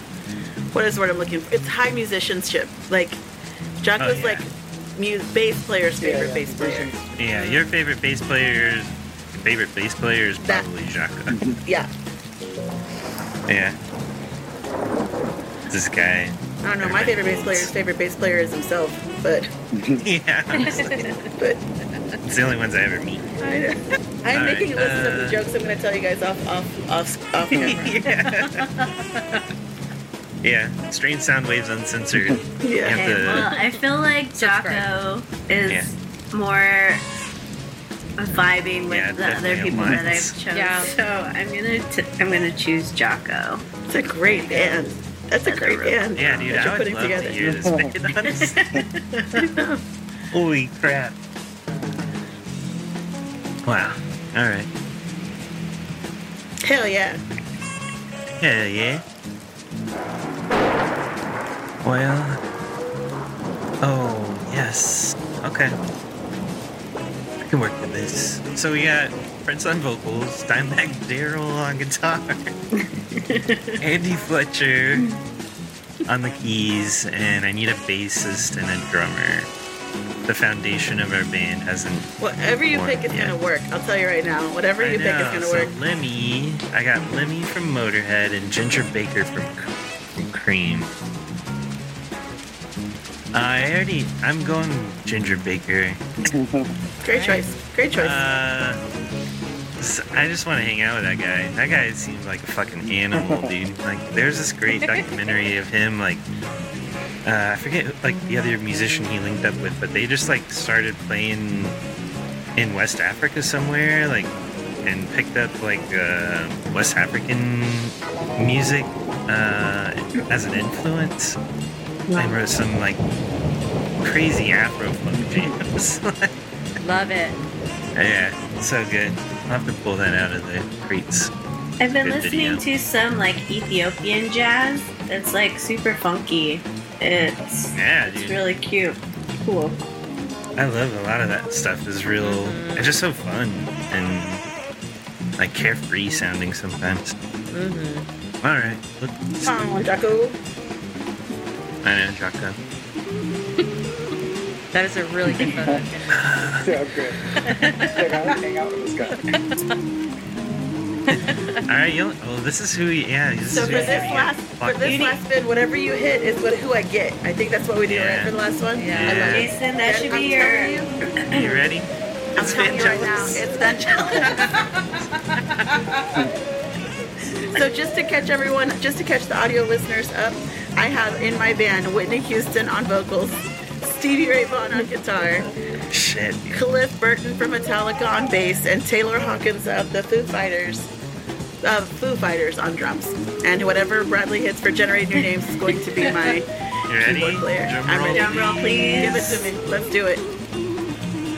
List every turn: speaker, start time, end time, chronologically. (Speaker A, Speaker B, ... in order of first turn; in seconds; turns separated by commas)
Speaker A: 0.7-3.2, Speaker A: 3.8-6.9, Speaker B: 4.0-4.5, Speaker C: 6.0-7.1, Speaker B: 7.2-11.4, Speaker D: 7.3-7.6, Speaker A: 10.4-10.7, Speaker C: 11.3-11.6, Speaker B: 13.5-13.8, Speaker B: 15.7-17.7, Speaker A: 16.6-19.5, Speaker C: 19.7-20.1, Speaker B: 20.0-21.0, Speaker D: 20.6-21.2, Speaker E: 20.9-21.1, Speaker A: 21.4-21.6, Speaker B: 22.2-23.3, Speaker A: 23.4-28.0, Speaker B: 24.3-25.4, Speaker B: 27.5-28.7, Speaker E: 28.2-28.7, Speaker B: 30.4-33.5, Speaker A: 32.6-33.1, Speaker E: 32.9-37.0, Speaker D: 33.5-33.8, Speaker D: 34.3-34.9, Speaker E: 38.2-43.6, Speaker B: 38.9-40.4, Speaker C: 39.7-40.0, Speaker D: 40.5-40.9, Speaker A: 43.9-47.5, Speaker D: 44.3-44.8, Speaker E: 45.4-46.6, Speaker B: 46.2-48.6, Speaker C: 47.4-47.9, Speaker E: 48.2-49.5, Speaker A: 49.4-49.8, Speaker B: 50.3-51.1, Speaker B: 53.7-54.7, Speaker A: 56.6-57.2, Speaker B: 58.4-59.0, Speaker B: 61.8-62.4, Speaker B: 63.8-65.8, Speaker B: 67.4-72.5, Speaker E: 72.7-73.8, Speaker B: 73.8-75.1, Speaker B: 76.1-79.5, Speaker B: 80.3-82.1, Speaker A: 82.2-85.7, Speaker B: 82.7-83.4, Speaker B: 84.8-90.9, Speaker B: 93.3-96.0, Speaker C: 96.3-96.7, Speaker A: 97.0-98.3, Speaker D: 97.1-97.4, Speaker B: 98.0-98.8, Speaker B: 99.8-106.2, Speaker C: 103.1-103.5, Speaker B: 107.2-111.8, Speaker B: 112.6-114.3, Speaker B: 114.8-121.4, Speaker E: 122.1-122.4, Speaker B: 122.2-123.0, Speaker B: 124.0-126.3, Speaker D: 126.8-127.4, Speaker B: 128.0-131.3, Speaker E: 131.8-139.8, Speaker B: 132.0-132.6, Speaker B: 137.7-138.4, Speaker B: 140.6-144.4, Speaker D: 142.2-143.0, Speaker B: 145.4-147.1, Speaker D: 147.5-148.1, Speaker B: 148.4-149.7, Speaker A: 149.4-150.4, Speaker B: 151.8-152.6, Speaker D: 154.7-156.4, Speaker C: 155.3-155.8, Speaker B: 156.1-156.7, Speaker C: 156.6-159.2, Speaker D: 157.4-158.0, Speaker E: 157.5-158.0, Speaker D: 159.1-159.6, Speaker B: 161.1-165.1, Speaker D: 161.3-161.6, Speaker A: 163.5-171.0, Speaker E: 164.9-165.1, Speaker B: 167.9-168.3, Speaker D: 168.8-169.3, Speaker B: 168.9-169.5, Speaker E: 169.2-171.6, Speaker B: 171.3-173.4, Speaker A: 172.3-174.5, Speaker D: 172.4-173.5, Speaker B: 174.0-174.5, Speaker D: 174.1-174.6, Speaker A: 177.5-185.5, Speaker B: 185.9-186.6, Speaker A: 186.5-190.9, Speaker A: 191.6-196.5, Speaker E: 196.0-196.3, Speaker B: 196.9-199.5, Speaker A: 197.0-200.2, Speaker E: 198.1-199.4